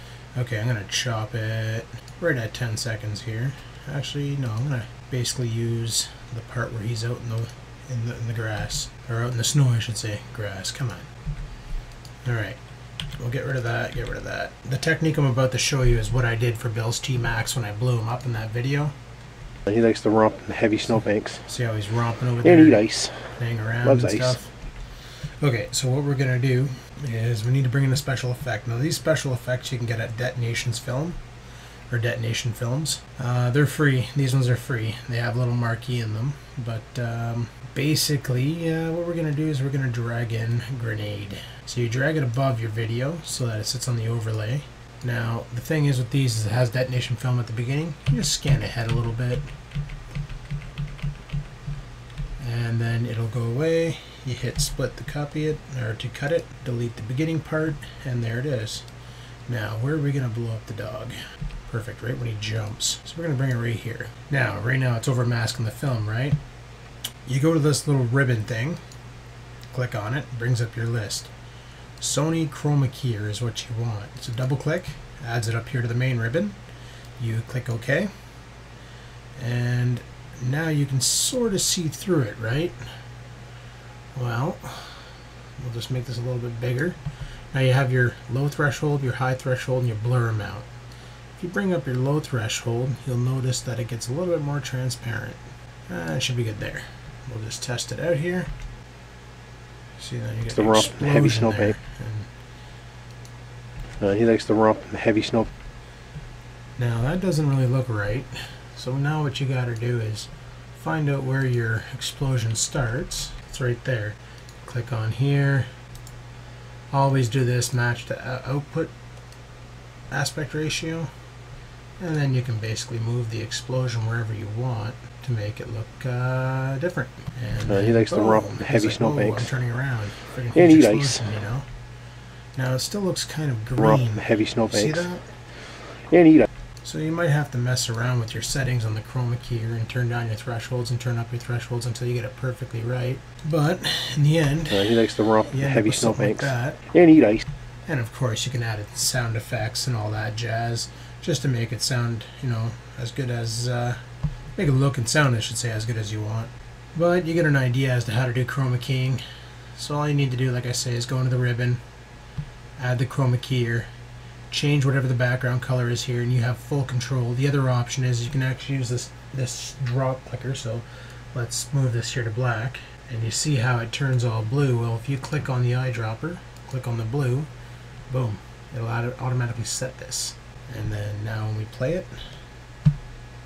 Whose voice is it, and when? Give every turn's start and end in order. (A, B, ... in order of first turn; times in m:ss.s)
0:00.3-0:11.1 A
0:12.2-0:12.6 A
0:13.2-0:18.9 A
0:19.7-0:21.4 B
0:21.4-0:24.5 A
0:22.4-0:23.3 B
0:23.8-0:24.4 B
0:25.4-0:31.2 A
0:31.9-0:49.4 A
0:52.4-0:58.8 A
0:59.5-1:01.2 A
1:01.7-1:06.4 A
1:07.2-1:08.8 A
1:09.7-1:11.3 A
1:12.0-1:16.6 A
1:17.2-1:18.1 A
1:19.4-1:22.8 A
1:24.1-1:27.0 A
1:27.5-1:30.7 A
1:31.4-1:38.5 A
1:40.0-1:42.3 A
1:40.5-1:41.7 B
1:44.0-1:45.5 B
1:46.8-1:55.7 A
1:56.9-1:58.9 A
2:00.1-2:01.1 A
2:02.0-2:11.6 A
2:07.7-2:09.5 B
2:10.5-2:11.2 B
2:12.6-2:15.2 A
2:13.8-2:15.1 B
2:16.1-2:16.5 B
2:16.8-2:26.8 A
2:24.7-2:27.4 B
2:27.9-2:34.0 A
2:34.6-2:39.2 A
2:39.7-2:41.8 A
2:42.8-2:43.9 A
2:44.5-2:57.5 A
2:58.1-3:02.1 A